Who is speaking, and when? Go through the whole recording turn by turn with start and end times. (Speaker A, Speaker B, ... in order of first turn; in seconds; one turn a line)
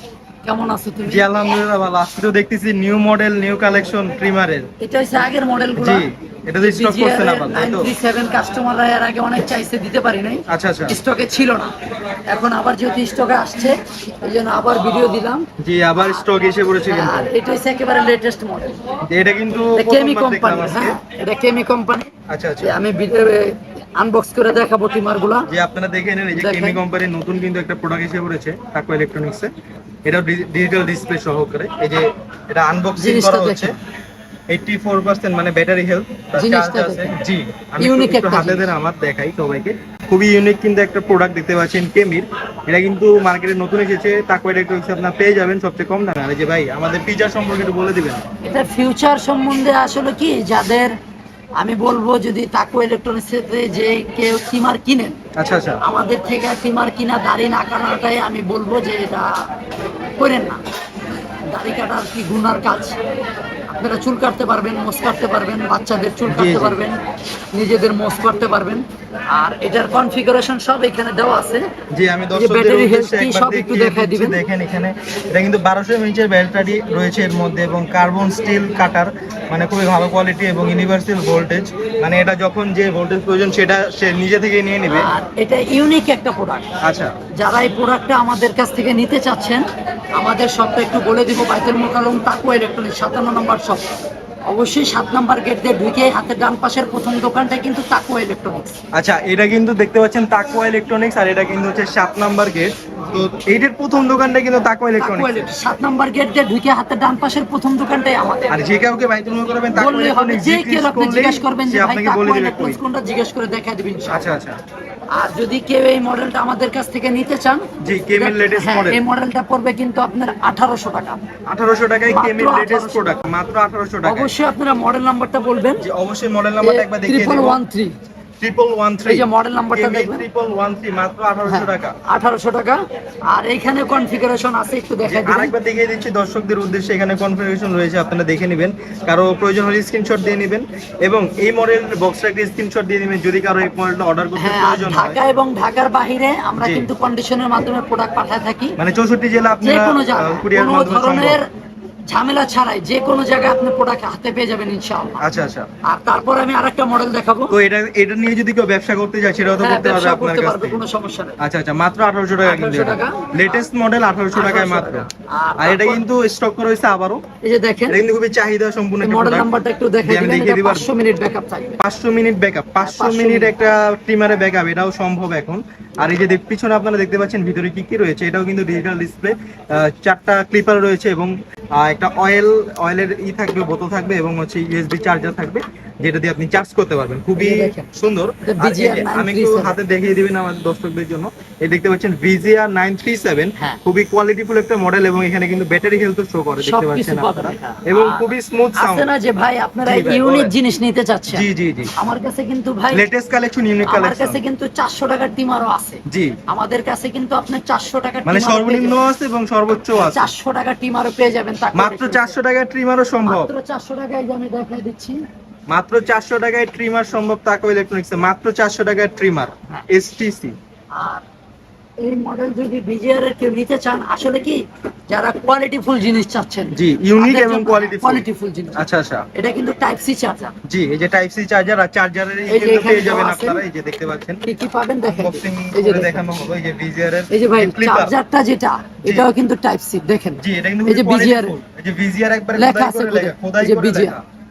Speaker A: 0.4-1.2
Speaker B: 1.1-4.7
Speaker A: 4.8-6.0
Speaker B: 5.8-7.9
Speaker A: 6.6-11.7
Speaker B: 10.5-11.0
Speaker A: 12.3-16.2
Speaker B: 15.6-17.3
Speaker A: 16.9-18.7
Speaker B: 19.1-21.0
Speaker A: 19.8-22.1
Speaker B: 22.3-22.8
Speaker A: 22.6-25.5
Speaker B: 25.5-29.5
Speaker A: 26.3-26.8
Speaker B: 30.0-33.8
Speaker A: 33.0-33.8
Speaker B: 34.5-48.2
Speaker A: 36.3-37.2
Speaker A: 37.8-38.7
Speaker A: 48.4-50.9
Speaker A: 51.6-55.2
Speaker B: 55.4-55.8
Speaker A: 55.8-59.5
Speaker A: 60.2-60.6
Speaker A: 61.5-63.0
Speaker A: 63.7-67.0
Speaker B: 66.3-66.8
Speaker A: 67.5-71.7
Speaker B: 71.9-85.1
Speaker A: 72.3-74.4
Speaker A: 84.9-86.7
Speaker B: 86.8-87.1
Speaker A: 87.4-89.7
Speaker A: 90.2-93.8
Speaker A: 94.5-98.8
Speaker B: 98.9-105.5
Speaker A: 105.0-108.5
Speaker B: 108.5-112.8
Speaker A: 109.7-114.3
Speaker B: 114.1-114.6
Speaker A: 115.1-117.6
Speaker B: 117.8-119.0
Speaker A: 118.2-121.2
Speaker B: 121.5-124.3
Speaker A: 122.1-123.1
Speaker A: 124.0-125.8
Speaker B: 125.8-127.6
Speaker A: 126.6-127.9
Speaker B: 128.4-131.9
Speaker A: 129.1-130.2
Speaker A: 131.5-135.5
Speaker B: 135.1-145.2
Speaker A: 144.4-148.8
Speaker B: 146.6-146.9
Speaker B: 148.8-151.4
Speaker A: 149.6-151.4
Speaker A: 152.1-155.2
Speaker B: 155.2-155.7
Speaker A: 155.8-157.5
Speaker B: 157.5-160.8
Speaker A: 159.6-161.4
Speaker B: 161.4-165.1
Speaker A: 162.4-163.7
Speaker A: 164.3-166.0
Speaker B: 165.6-167.2
Speaker A: 167.4-168.0
Speaker B: 167.9-169.5
Speaker A: 169.0-171.8
Speaker B: 170.0-170.9
Speaker B: 171.8-199.1
Speaker A: 172.8-173.5
Speaker A: 187.3-187.9
Speaker A: 188.4-189.8
Speaker A: 196.6-203.0
Speaker B: 199.8-200.5
Speaker B: 201.3-201.9
Speaker B: 202.9-204.4
Speaker A: 203.9-209.0
Speaker B: 206.1-206.4
Speaker B: 208.2-210.3
Speaker A: 209.9-212.3
Speaker B: 211.7-213.5
Speaker A: 213.2-215.2
Speaker B: 215.7-220.6
Speaker A: 220.9-221.2
Speaker A: 222.0-228.8
Speaker B: 226.7-229.3
Speaker A: 229.3-230.5
Speaker B: 230.7-234.4
Speaker A: 232.5-233.6
Speaker A: 234.4-236.2
Speaker B: 235.1-238.1
Speaker A: 237.3-241.5
Speaker B: 240.4-244.2
Speaker A: 242.5-244.2